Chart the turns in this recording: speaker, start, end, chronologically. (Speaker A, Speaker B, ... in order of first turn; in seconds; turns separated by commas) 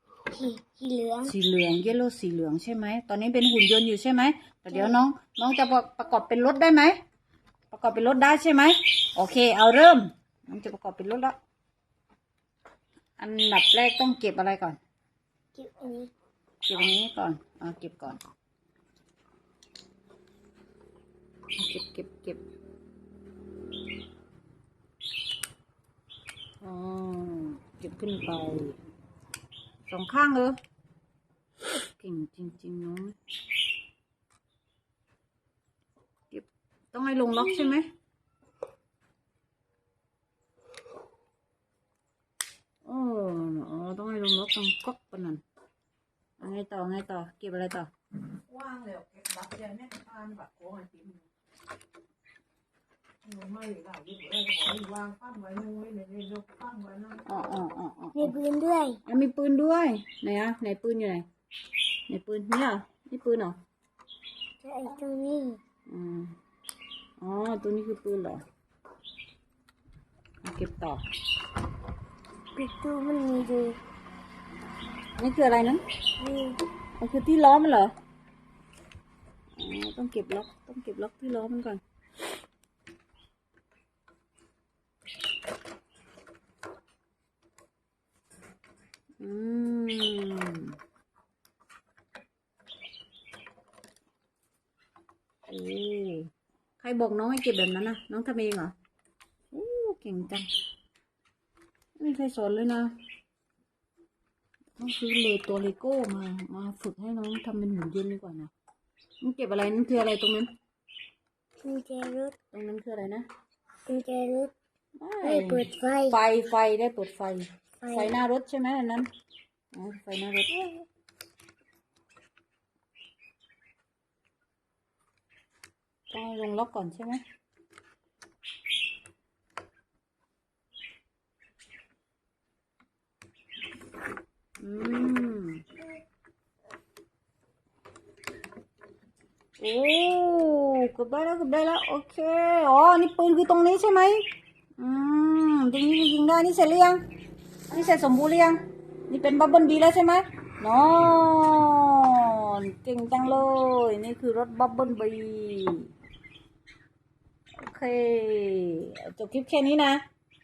Speaker A: 0.3-1.3, Speaker B: 1.2-7.0, Speaker B: 7.7-11.3, Speaker B: 13.2-14.8, Speaker A: 15.5-16.1, Speaker B: 16.6-18.2, Speaker B: 21.6-22.4, Speaker B: 26.6-28.8, Speaker B: 29.9-30.6, Speaker B: 32.0-33.1, Speaker B: 36.3-37.9, Speaker B: 42.8-45.4, Speaker B: 46.4-47.9, Speaker C: 48.7-51.1, Speaker C: 53.4-57.0, Speaker B: 57.2-58.4, Speaker A: 58.1-59.0, Speaker B: 59.0-61.3, Speaker B: 62.1-63.6, Speaker A: 64.6-65.6, Speaker B: 65.9-66.3, Speaker B: 67.2-68.4, Speaker B: 70.4-71.0, Speaker A: 72.5-73.8, Speaker B: 75.2-75.8, Speaker A: 76.2-76.6, Speaker B: 77.0-77.9, Speaker B: 79.6-81.8, Speaker B: 89.2-90.8, Speaker B: 95.5-98.7, Speaker B: 99.5-100.5, Speaker B: 102.0-102.9, Speaker B: 104.8-108.5, Speaker B: 109.2-110.5, Speaker A: 111.6-112.3, Speaker B: 112.5-113.2, Speaker A: 113.9-114.5, Speaker B: 115.0-119.1, Speaker A: 115.2-116.2, Speaker A: 117.8-118.2, Speaker B: 119.7-120.6, Speaker B: 126.1-127.2, Speaker B: 134.6-135.7, Speaker B: 139.6-144.2, Speaker B: 144.8-147.0, Speaker B: 147.7-148.6, Speaker B: 149.1-155.9, Speaker B: 157.6-160.0